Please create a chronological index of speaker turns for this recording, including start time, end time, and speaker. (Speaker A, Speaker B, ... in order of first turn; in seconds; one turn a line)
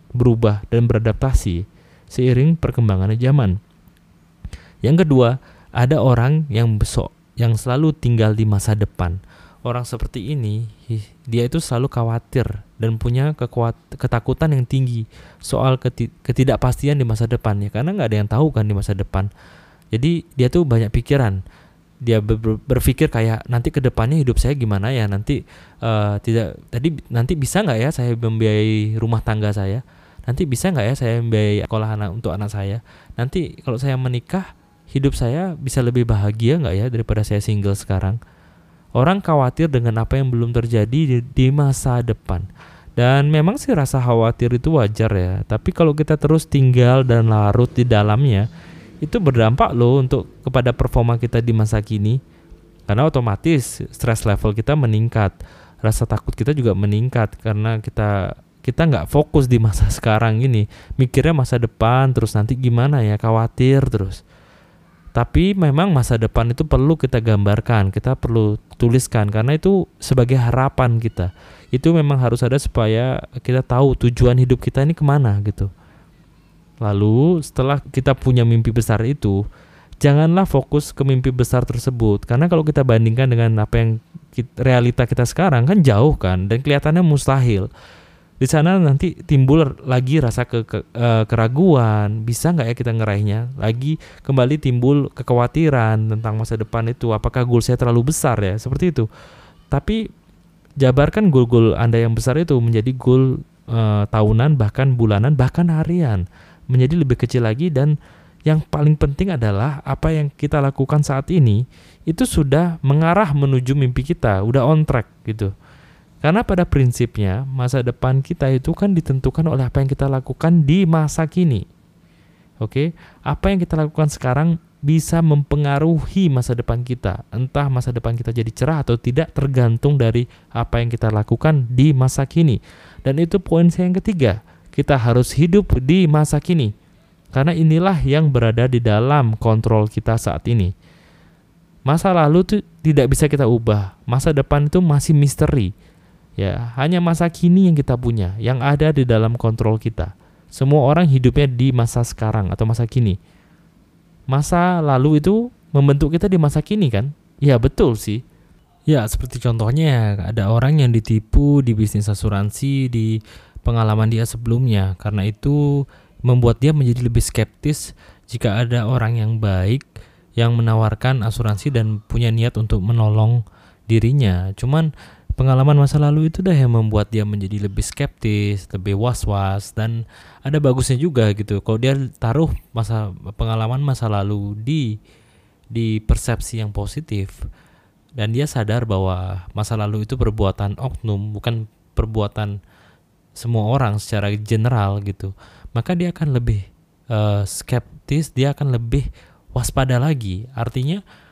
Speaker A: 0.1-3.6
Speaker A: 4.8-19.3
Speaker A: 19.9-21.4
Speaker A: 22.0-38.2
Speaker A: 39.0-42.5
Speaker A: 43.0-48.5
Speaker A: 49.0-52.2
Speaker A: 52.9-64.2
Speaker A: 65.1-75.7
Speaker A: 76.8-79.4
Speaker A: 80.0-87.7
Speaker A: 88.4-99.1
Speaker A: 99.7-100.0
Speaker A: 100.8-107.9
Speaker A: 108.5-115.5
Speaker A: 116.2-121.6
Speaker A: 122.6-136.7
Speaker A: 137.3-140.7
Speaker A: 141.8-145.7
Speaker A: 146.4-153.2
Speaker A: 154.3-158.2
Speaker A: 158.9-169.8
Speaker A: 170.4-184.9
Speaker A: 185.7-187.4
Speaker A: 188.2-192.5
Speaker A: 193.3-201.0